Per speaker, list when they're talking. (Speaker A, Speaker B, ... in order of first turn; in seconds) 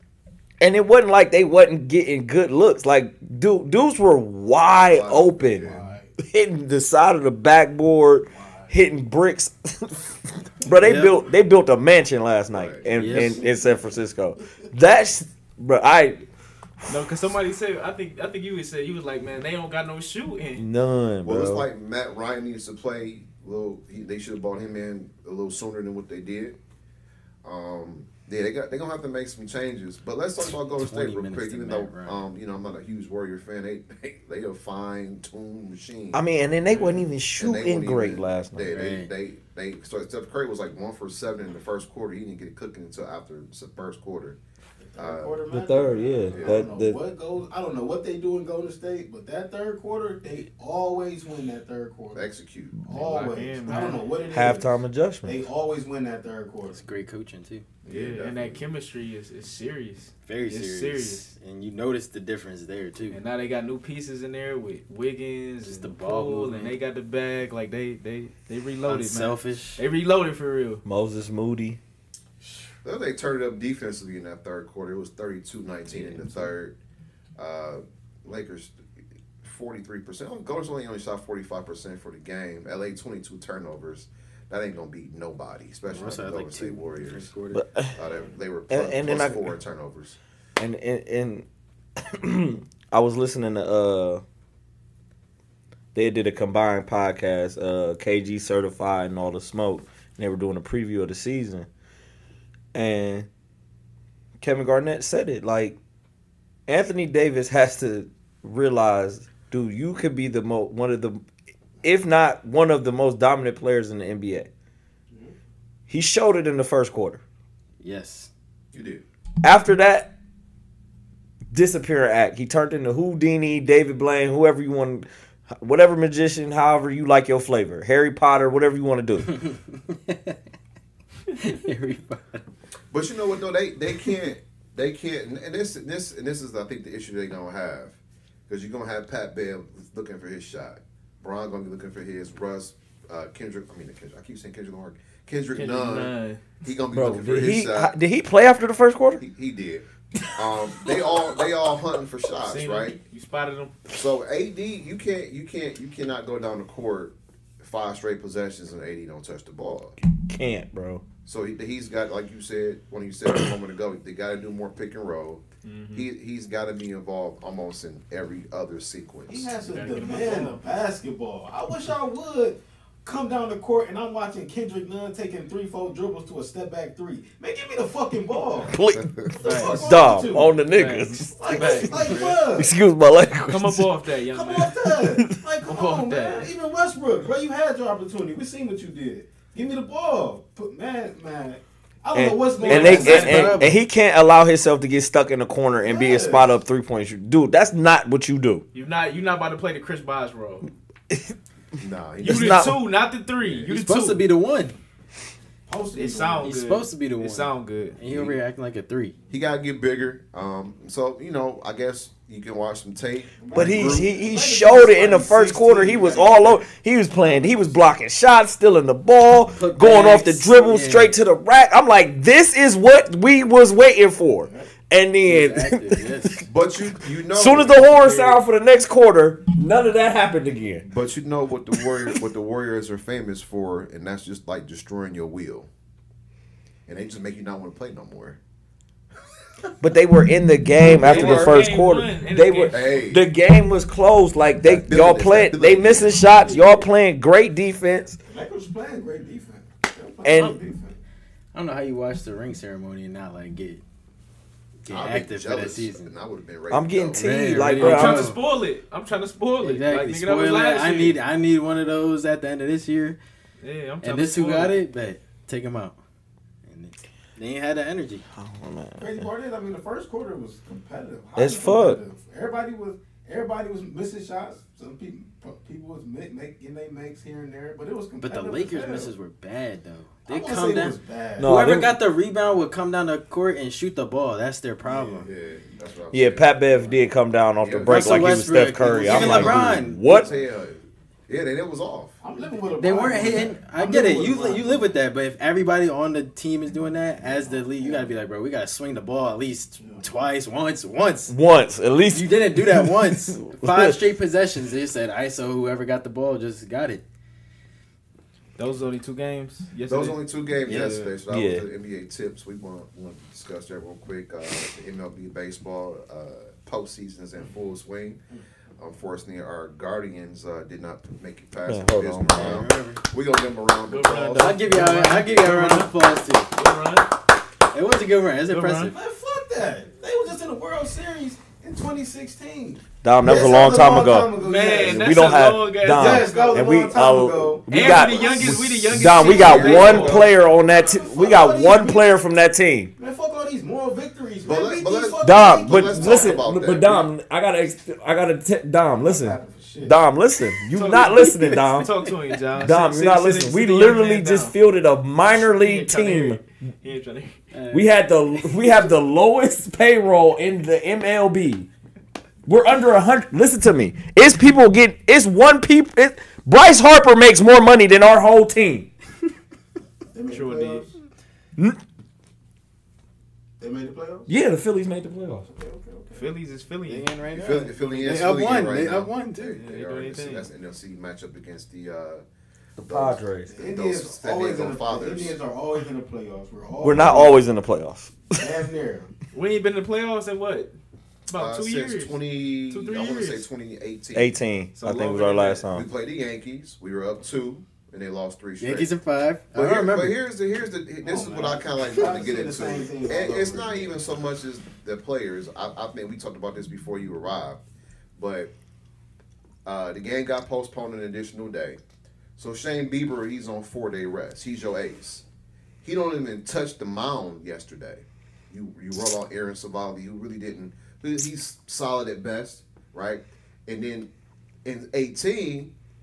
Speaker A: 0.6-16.3, 20.6-21.7, 36.1-38.8, 45.5-47.0, 54.3-55.4, 70.8-71.8, 87.5-88.0, 88.7-89.5, 90.6-91.5, 92.0-94.2, 96.0-101.7, 102.7-103.3, 104.4-105.8, 106.7-111.2, 111.8-114.5, 115.9-117.2, 119.4-120.1, 121.5-129.4, 146.9-149.2, 160.1-161.0, 178.7-183.9, 185.0-185.4, 192.1-198.6, 201.1-201.3, 202.2-202.8, 213.5-226.4, 227.2-230.9, 231.7-232.2, 239.8-248.2, 250.2-250.6, 256.7-258.3, 268.3-269.3, 271.4-272.0, 281.4-282.0, 286.1-290.3, 301.3-304.0, 311.3-311.7, 321.7-322.7, 333.0-342.9, 345.2-351.9, 352.6-356.4, 357.7-361.7, 362.5-368.9, 374.3-375.5, 382.8-383.5, 386.8-388.5, 394.1-395.9
Speaker B: 4.9-5.9, 12.5-12.9, 21.2-26.6, 27.4-36.2, 37.4-44.4, 45.0-45.4, 46.3-46.7, 52.1-52.8, 57.8-58.6, 72.8-76.8, 77.4-78.8, 79.4-87.3, 88.0-90.2, 118.7-119.0, 132.9-138.0, 138.5-147.9, 149.2-153.0, 153.9-160.0, 161.2-169.5, 178.9-179.5, 201.8-202.8, 208.0-208.4, 209.3-214.1, 226.4-228.3, 230.8-235.7, 236.9-238.4, 241.0-241.7, 242.7-243.2, 244.6-246.6, 254.9-257.5, 284.9-286.9, 287.6-292.2, 309.9-318.2, 318.8-324.6, 338.5-340.3, 344.4-347.1, 377.3-382.2, 382.8-385.4, 391.3-394.4, 395.7-398.9, 399.5-407.6, 408.2-408.5, 409.6-411.8, 412.4-415.2, 415.8-424.1, 424.6-425.7
Speaker C: 5.6-6.1, 8.3-8.7, 44.8-52.3, 52.9-56.8, 169.3-178.8, 179.3-180.6, 181.3-182.7, 184.3-193.6, 195.8-196.5, 205.7-206.6, 213.4-217.8, 224.4-224.7, 248.3-251.0, 269.0-279.1, 280.2-281.6, 284.9-285.2, 292.2-294.9, 297.2-298.1, 299.8-300.1, 328.9-338.6, 339.4-342.2, 343.0-346.4, 349.0-350.0, 370.1-370.9, 373.6-374.3, 375.5-376.3, 377.4-377.6, 383.5-387.4, 388.4-389.1, 401.0-404.0
Speaker D: 10.8-11.2, 12.9-13.5, 30.5-32.2, 38.7-39.1, 56.7-57.7, 60.3-63.2, 65.6-66.8, 68.9-69.8, 76.0-76.5, 85.9-87.6, 117.8-118.3, 129.3-130.4, 131.3-132.4, 192.8-193.8, 203.7-204.8, 206.4-209.2, 219.5-221.2, 225.2-226.4, 251.5-253.8, 254.8-256.1, 257.2-258.4, 259.6-263.2, 264.0-266.0, 266.6-268.2, 278.2-285.3, 287.8-290.1, 292.8-301.3, 302.1-307.0, 310.7-311.1, 322.3-323.0, 324.4-326.5, 327.7-328.9, 350.9-352.1, 357.5-357.9, 376.9-379.6, 398.6-400.2
Speaker E: 16.9-20.6, 52.9-54.1, 57.9-61.3, 63.1-70.8, 145.6-146.4, 152.4-153.7, 165.6-166.1, 169.6-170.6, 179.4-179.9, 180.6-182.4, 183.5-184.8, 185.7-186.5, 192.6-193.6, 198.7-200.7, 202.2-204.2, 205.9-208.0, 240.9-242.8, 257.6-261.2, 263.6-264.8, 308.6-311.1, 323.9-325.9, 326.5-327.1, 328.5-328.9, 334.4-336.8, 337.7-340.3, 350.7-354.5, 355.3-357.4, 370.3-370.9, 376.1-377.1, 379.6-380.5, 389.3-390.7, 391.3-393.5, 394.8-395.7